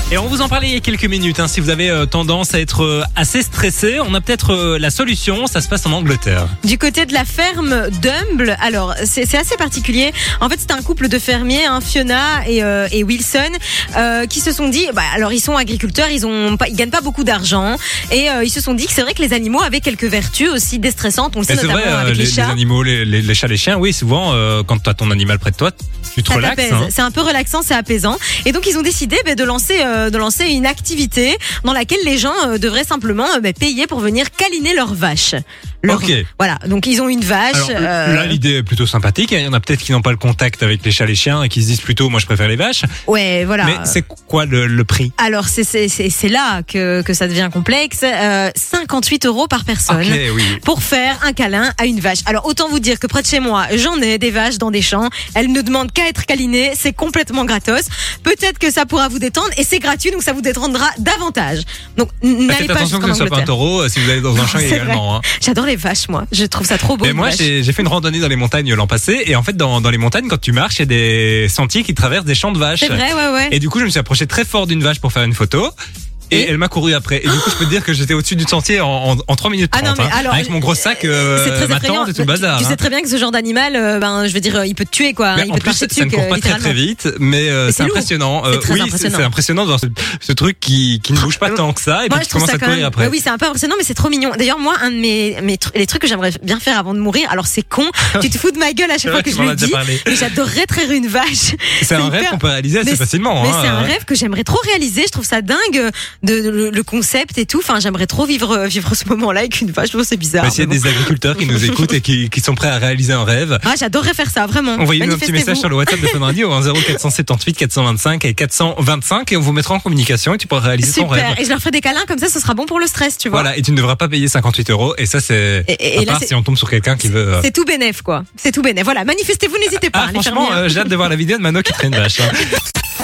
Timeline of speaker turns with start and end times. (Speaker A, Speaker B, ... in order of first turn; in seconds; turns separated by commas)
Speaker A: 0.1-6.5, Speaker B: 6.6-22.6, Speaker A: 21.5-26.9, Speaker B: 26.3-38.4, Speaker A: 35.9-36.3, Speaker A: 37.5-42.9, Speaker B: 43.0-44.0, Speaker A: 43.6-45.1, Speaker B: 45.2-63.5, Speaker A: 49.9-50.6, Speaker A: 62.5-65.2, Speaker B: 64.1-67.5, Speaker A: 67.0-75.7, Speaker B: 72.8-73.6, Speaker A: 76.3-82.8, Speaker B: 79.7-86.8, Speaker A: 85.3-93.1, Speaker B: 87.6-89.3, Speaker B: 91.2-111.9, Speaker A: 99.0-100.2, Speaker A: 101.8-103.9, Speaker A: 110.4-113.6, Speaker B: 113.6-116.3, Speaker A: 114.8-121.4, Speaker B: 120.8-123.5, Speaker A: 123.3-127.5, Speaker B: 125.7-126.3, Speaker B: 127.4-130.9, Speaker A: 129.9-132.5